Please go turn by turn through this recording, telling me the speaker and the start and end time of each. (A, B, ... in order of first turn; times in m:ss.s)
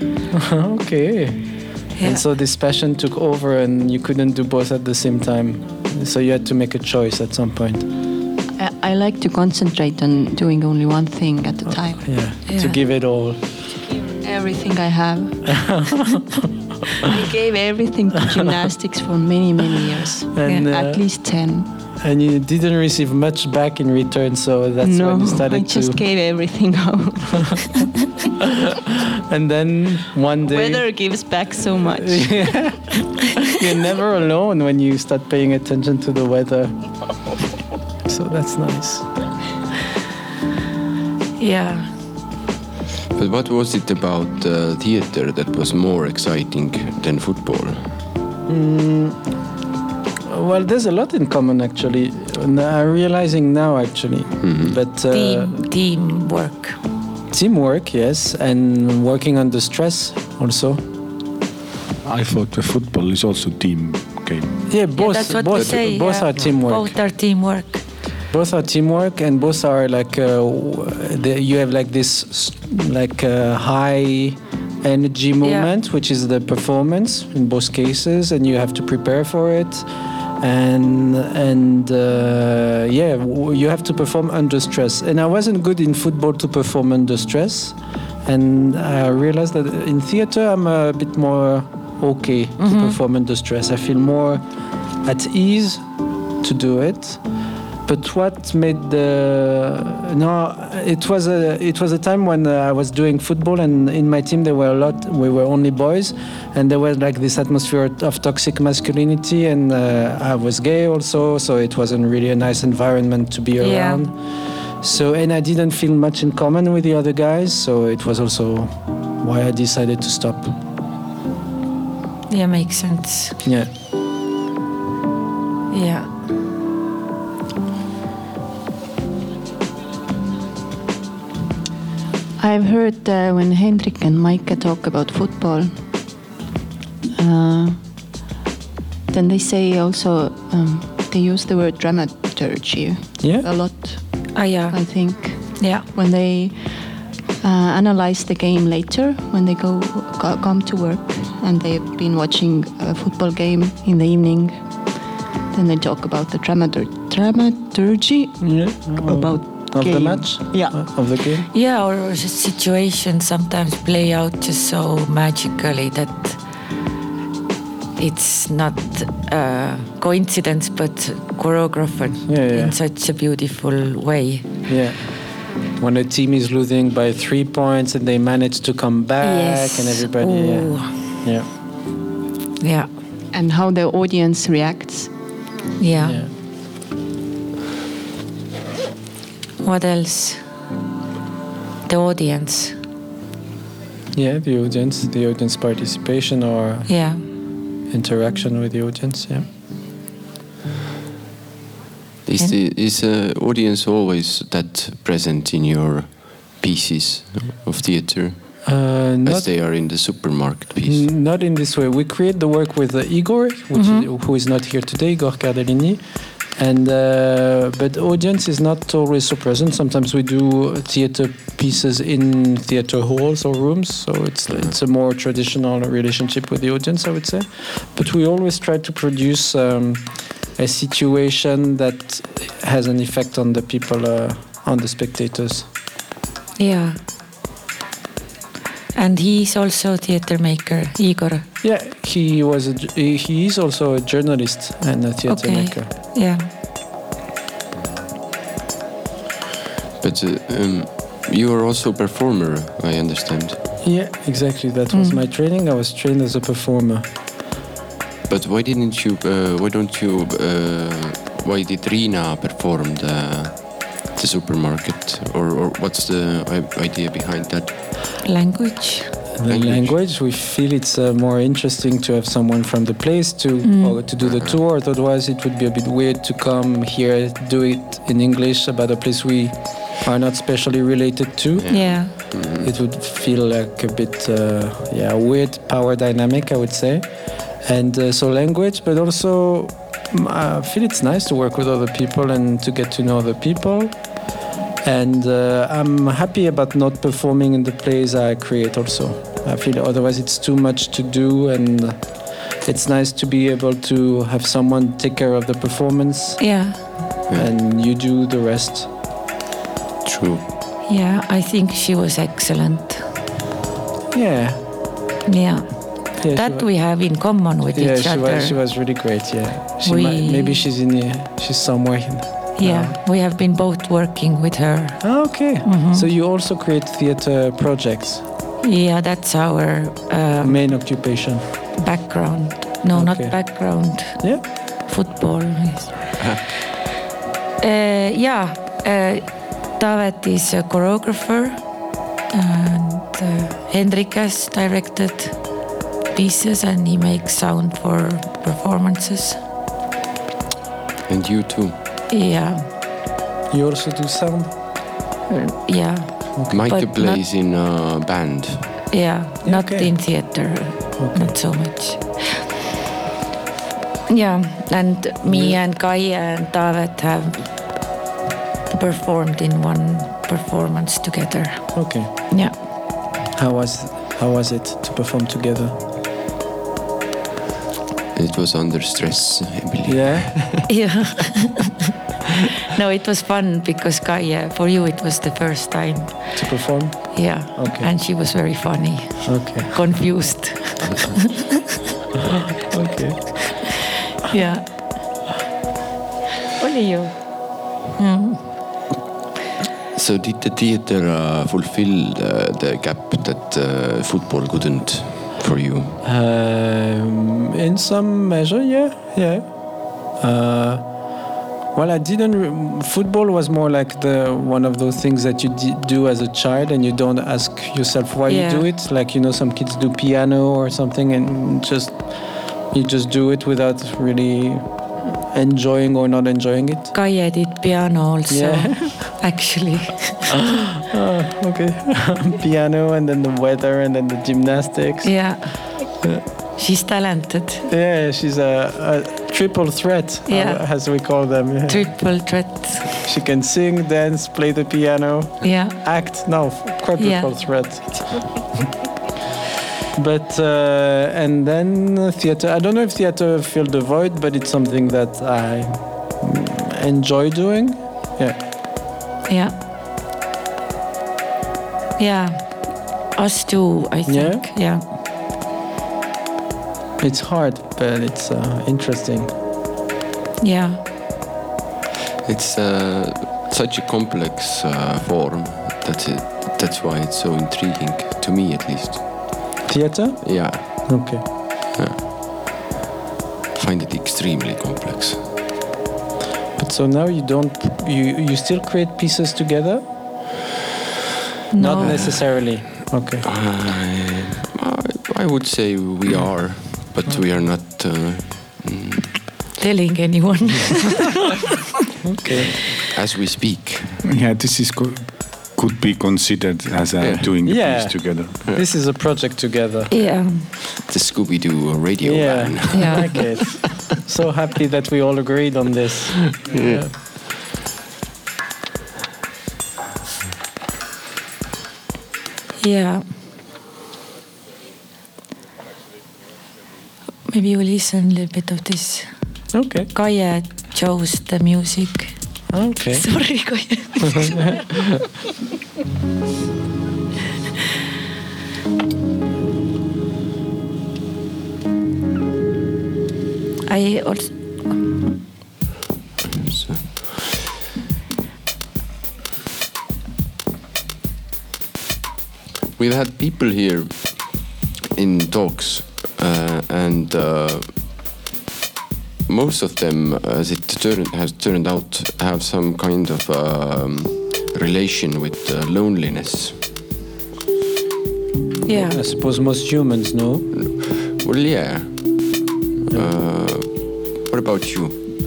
0:00.3-0:01.4 A
0:02.0-0:02.2 B
0:02.0-0:07.9 A
0:08.6-0:12.1 C
0:12.0-0:13.4 A
0:12.5-0:12.8 B
0:14.2-0:16.0 C
0:15.5-0:16.4 A
0:17.0-0:21.7 C
0:20.3-0:21.0 A
0:22.0-0:26.0 A
0:24.8-0:27.9 C
0:28.4-0:30.9 A
0:30.4-0:32.5 C
0:32.0-0:36.8 A
0:38.0-0:39.1 A
0:41.4-0:41.9 B
0:43.1-0:47.9 D
0:48.5-0:49.2 A
0:50.3-0:55.6 A
0:54.4-0:54.8 D
0:55.1-0:56.8 B
0:57.3-1:00.8 A
1:02.0-1:04.6 E
1:04.7-1:06.9 A
1:04.9-1:07.8 B
1:08.3-1:19.9 A
1:15.4-1:15.7 B
1:20.4-1:34.4 A
1:32.6-1:33.0 B
1:35.0-1:35.8 A
1:36.4-1:37.2 A
1:37.8-1:54.2 A
1:53.6-1:54.0 B
1:54.8-2:00.5 A
2:02.3-2:03.4 B
2:03.4-2:03.7 A
2:05.7-2:06.1 B
2:12.4-2:15.7 C
2:17.2-2:17.8 C
2:19.1-2:26.8 C
2:23.2-2:23.4 A
2:24.3-2:24.8 B
2:25.3-2:25.8 B
2:27.4-2:34.6 C
2:35.5-2:40.9 C
2:38.4-2:41.5 A
2:41.5-2:46.4 B
2:48.0-2:54.5 B
2:52.3-2:52.7 A
2:54.7-2:55.0 A
2:55.8-3:01.5 A
2:59.2-3:00.9 B
3:02.6-3:02.9 B
3:03.3-3:05.1 C
3:05.8-3:06.2 B
3:06.0-3:06.3 A
3:09.6-3:10.4 B
3:11.8-3:12.7 B
3:14.1-3:16.9 A
3:16.9-3:17.2 B
3:17.9-3:19.5 A
3:22.2-3:28.6 D
3:28.6-3:29.5 A
3:29.2-3:31.1 D
3:30.8-3:36.0 A
3:33.7-3:34.0 B
3:36.6-3:55.7 A
3:56.6-3:57.0 B
3:58.9-4:01.4 B
4:01.6-4:05.9 A
4:05.3-4:06.4 B
4:10.0-4:13.6 D
4:13.8-4:17.1 A
4:14.9-4:15.2 B
4:18.3-4:27.7 D
4:28.2-4:29.1 B
4:29.4-4:47.1 A
4:29.5-4:30.0 D
4:33.6-4:34.0 B
4:34.2-4:34.6 D
4:41.6-4:42.7 D
4:41.7-4:42.1 B
4:47.6-4:54.0 A
4:54.8-5:06.4 A
5:06.4-5:06.8 B
5:07.3-5:08.9 A
5:10.0-5:10.4 D
5:10.8-5:13.0 B
5:14.1-5:14.6 A
5:15.2-5:18.6 B
5:16.2-5:16.7 A
5:17.7-5:22.9 A
5:19.8-5:20.6 B
5:22.6-5:26.1 B
5:25.0-5:28.2 A
5:28.6-5:30.6 B
5:30.4-5:31.4 A
5:31.8-5:36.0 B
5:32.9-5:33.5 A
5:37.6-5:41.6 B
5:42.3-5:45.4 B
5:46.1-5:49.4 B
5:51.1-5:51.8 D
5:52.1-5:52.6 B
5:53.5-5:54.5 A
5:55.3-5:57.2 B
5:56.5-5:58.8 D
5:58.9-6:02.4 B
5:59.4-5:59.9 A
6:01.0-6:01.3 A
6:04.1-6:07.5 B
6:05.3-6:05.6 A
6:08.7-6:12.5 B
6:11.7-6:12.1 A
6:13.3-6:15.7 A
6:18.1-6:20.6 D
6:19.8-6:20.7 A
6:20.7-6:21.8 B
6:22.7-6:26.4 B
6:26.4-6:27.9 A
6:27.1-6:31.3 B
6:29.2-6:29.7 A
6:32.5-6:33.7 A
6:34.2-6:34.7 B
6:38.0-6:38.4 B
6:39.9-6:46.0 D
6:46.0-6:49.5 A
6:50.1-6:50.8 A
6:51.7-7:02.0 A
6:58.3-6:58.6 B
7:02.7-7:06.9 A
7:06.9-7:10.5 B
7:08.3-7:09.1 A
7:10.5-7:15.1 A
7:15.0-7:15.6 B
7:16.6-7:17.7 B
7:17.7-7:21.9 A
7:20.3-7:20.6 B
7:21.7-7:22.9 B
7:23.0-7:28.4 A
7:25.4-7:25.8 B
7:27.0-7:27.3 B
7:29.9-7:38.4 A
7:39.2-7:39.5 B
7:42.0-7:44.8 B
7:44.1-7:44.4 A
7:47.0-7:49.3 A
7:50.4-7:50.8 B
7:52.2-7:59.3 D
7:59.7-8:01.2 A
8:00.2-8:01.1 D
8:01.7-8:02.0 D
8:03.5-8:05.2 D
8:06.6-8:09.8 A
8:11.5-8:12.1 B
8:11.6-8:13.2 A
8:11.8-8:12.2 D
8:13.2-8:19.2 D
8:19.6-8:21.2 B
8:22.0-8:22.5 A
8:22.9-8:24.0 D
8:24.0-8:28.4 E
8:27.0-8:27.3 D
8:27.4-8:29.9 A
8:29.9-8:30.5 B
8:30.8-8:33.6 D
8:32.0-8:36.9 A
8:32.7-8:33.0 B
8:36.4-8:37.0 D
8:42.6-8:43.0 B
8:47.3-8:49.1 B
8:49.5-8:49.9 A
8:49.9-8:52.1 B
8:52.5-8:53.0 A
8:52.9-8:54.7 B
8:54.0-8:54.8 A
9:03.7-9:04.3 B
9:06.3-9:07.3 D
9:12.8-9:14.3 D
9:14.9-9:17.7 D
9:19.3-9:26.6 D
9:28.6-9:29.0 B
9:28.7-9:30.5 A
9:30.5-9:32.3 D
9:32.9-9:33.7 D
9:34.3-9:34.9 D